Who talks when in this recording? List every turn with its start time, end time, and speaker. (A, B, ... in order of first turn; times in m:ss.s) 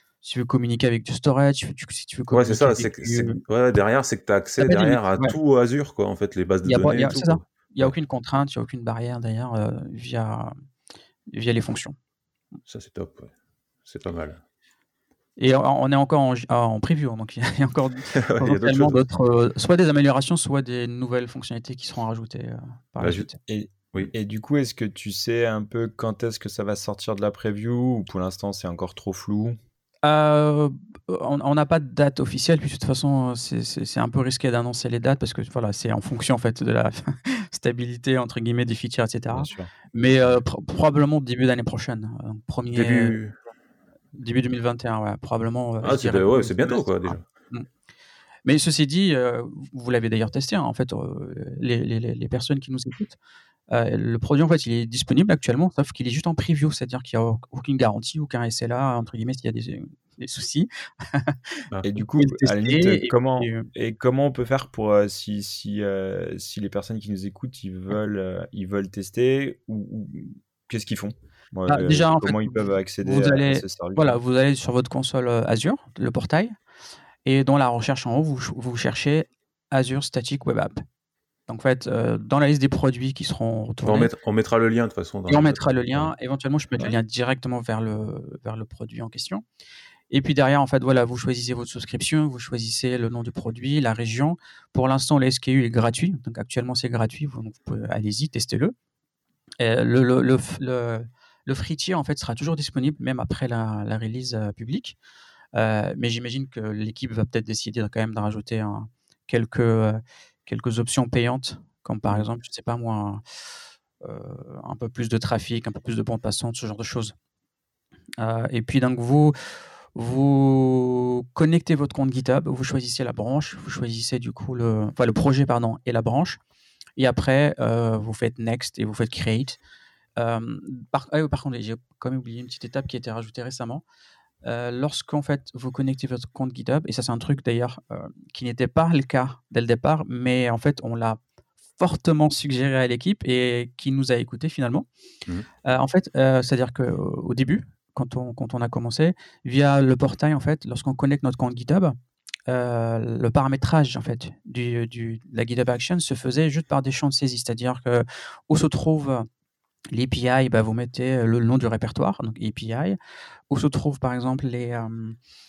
0:00.2-0:03.4 A
0:02.3-0:07.9 B
0:04.6-0:05.4 A
0:06.6-0:10.5 A
0:11.3-0:11.9 A
0:12.7-0:13.3 B
0:13.8-0:14.4 B
0:15.4-0:23.4 A
0:18.1-0:19.0 B
0:23.0-0:23.3 B
0:23.5-0:29.6 C
0:30.0-0:43.2 A
0:39.3-0:39.8 C
0:42.7-0:43.3 B
0:44.1-0:47.7 A
0:45.8-0:47.2 B
0:48.4-0:53.2 A
0:53.7-1:01.4 A
1:01.8-1:14.2 C
1:02.0-1:03.7 A
1:11.7-1:16.5 A
1:17.2-1:20.8 A
1:21.5-1:24.1 A
1:23.8-1:26.1 B
1:25.3-1:29.4 A
1:30.1-1:38.7 A
1:39.6-1:45.0 A
1:45.5-1:53.2 A
1:54.0-1:57.1 A
1:58.2-1:59.3 A
1:59.9-2:06.4 A
2:07.0-2:09.6 A
2:10.2-2:13.8 A
2:14.4-2:21.2 A
2:21.8-2:24.8 A
2:25.6-2:32.0 A
2:32.5-2:39.3 A
2:39.9-2:43.0 A
2:43.5-2:45.2 A